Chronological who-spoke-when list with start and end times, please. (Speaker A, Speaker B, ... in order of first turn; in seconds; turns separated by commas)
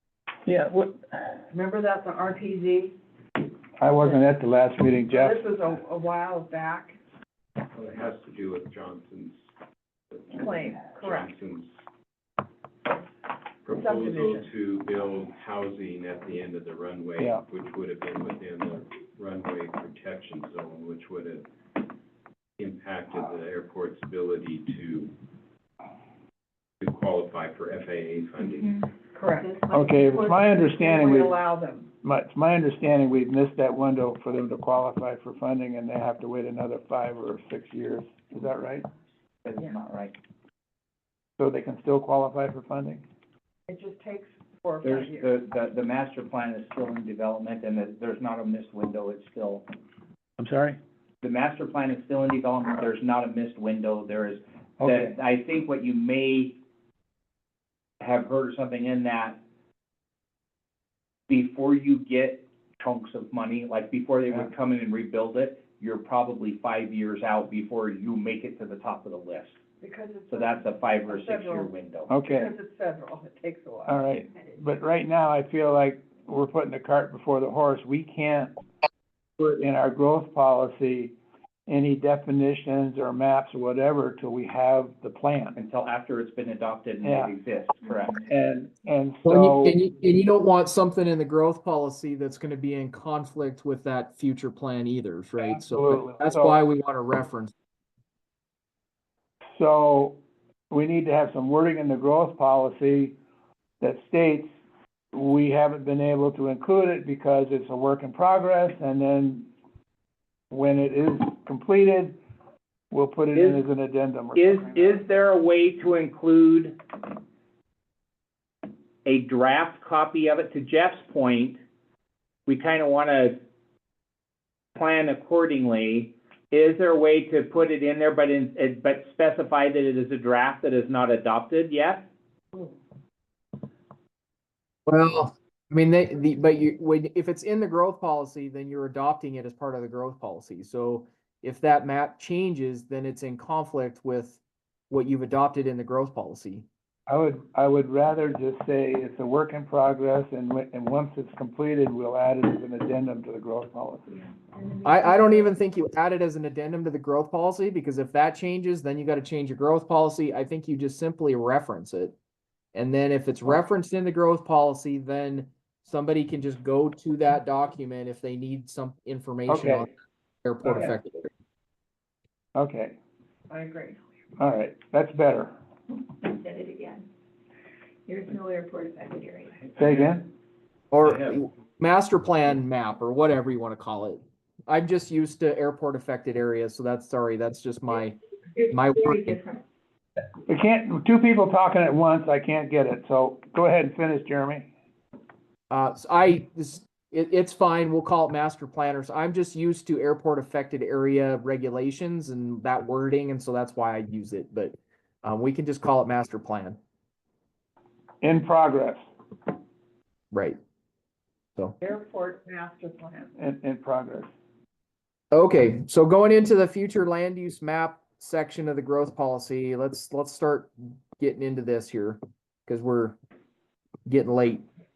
Speaker A: 0.5-1.0, Speaker B: 1.5-3.0, Speaker A: 3.8-5.4, Speaker B: 5.1-7.0, Speaker C: 7.7-9.4, Speaker C: 10.1-11.7, Speaker B: 10.3-11.3, Speaker C: 13.6-21.5, Speaker B: 13.7-14.5, Speaker A: 17.2-17.4, Speaker C: 22.6-25.2, Speaker C: 26.8-28.8, Speaker B: 29.1-31.9, Speaker D: 29.4-30.1, Speaker A: 29.7-31.4, Speaker A: 32.0-38.9, Speaker E: 39.4-40.1, Speaker A: 41.4-43.0, Speaker B: 43.7-45.3, Speaker E: 44.8-49.6, Speaker A: 50.4-50.8, Speaker E: 51.2-56.6, Speaker A: 54.8-55.1, Speaker E: 58.0-59.4, Speaker E: 61.3-69.6, Speaker B: 69.8-71.7, Speaker E: 70.3-72.1, Speaker A: 72.1-72.5, Speaker B: 72.2-74.0, Speaker A: 73.9-78.5, Speaker A: 79.4-81.2, Speaker A: 81.7-85.6, Speaker E: 85.6-88.2, Speaker A: 87.0-87.3, Speaker A: 88.2-89.8, Speaker F: 89.3-97.5, Speaker A: 95.4-96.6, Speaker A: 99.5-103.2, Speaker A: 103.8-104.5, Speaker A: 105.1-109.5, Speaker A: 110.5-112.2, Speaker A: 112.9-115.0, Speaker E: 113.3-113.6, Speaker E: 114.4-116.8, Speaker E: 119.0-121.6, Speaker E: 122.5-123.4, Speaker E: 124.8-132.1, Speaker F: 134.9-146.7, Speaker A: 147.1-154.2, Speaker D: 154.2-155.6, Speaker F: 154.8-162.2, Speaker F: 162.7-169.9, Speaker A: 169.5-169.9, Speaker F: 170.4-171.3, Speaker A: 170.6-171.0, Speaker A: 172.6-173.0, Speaker B: 173.5-174.0, Speaker A: 174.4-175.6, Speaker D: 176.2-177.1, Speaker D: 178.1-179.6, Speaker A: 179.8-180.3, Speaker E: 179.8-180.1, Speaker F: 180.9-189.4, Speaker D: 188.7-189.6, Speaker A: 190.5-194.7, Speaker F: 195.7-206.8, Speaker A: 208.2-209.1, Speaker F: 210.3-210.6, Speaker B: 211.8-213.3, Speaker A: 213.4-214.3, Speaker F: 215.3-223.2, Speaker F: 224.1-224.7